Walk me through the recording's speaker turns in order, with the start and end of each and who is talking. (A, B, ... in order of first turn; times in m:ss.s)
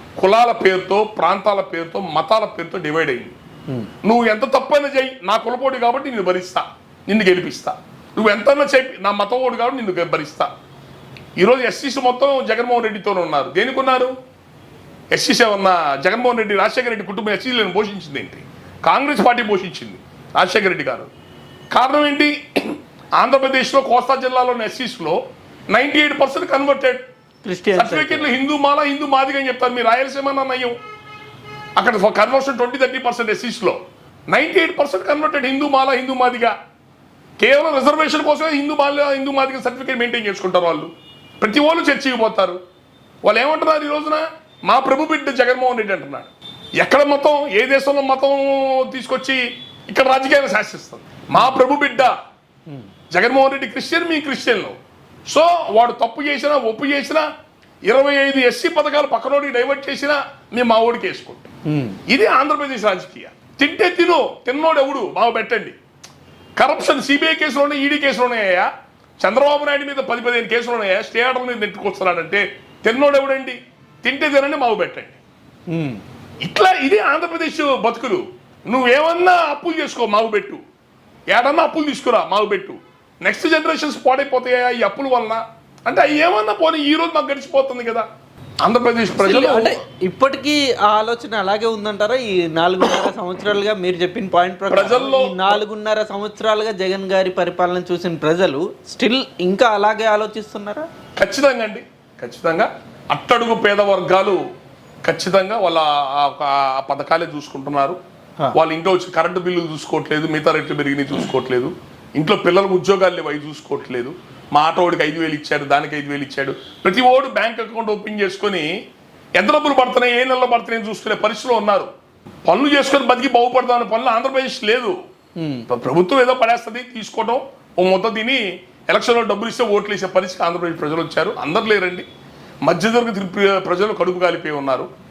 0:00.2-0:03.3 A
0:04.0-0:10.5 A
0:11.4-0:14.1 A
0:15.1-0:21.1 A
0:21.7-0:25.2 A
0:25.7-0:27.0 A
0:27.4-0:28.3 B
0:27.7-0:30.8 A
0:31.8-0:33.8 A
0:34.3-0:36.5 A
0:37.4-0:40.9 A
0:41.4-0:42.6 A
0:43.2-0:52.2 A
0:53.1-0:54.8 A
0:55.3-0:57.2 A
0:57.8-1:01.5 A
1:01.6-1:02.0 B
1:02.1-1:05.8 A
1:06.6-1:08.7 A
1:09.2-1:15.2 A
1:15.7-1:16.0 B
1:16.4-1:20.6 A
1:21.3-1:28.0 A
1:28.6-1:29.8 A
1:29.2-1:40.9 B
1:34.7-1:35.6 A
1:41.2-1:44.4 A
1:45.0-1:48.0 A
1:48.5-1:58.7 A
1:59.4-2:01.9 A
2:02.4-2:05.0 A
2:05.4-2:05.6 B
2:05.7-2:12.0 A
2:12.7-2:14.9 A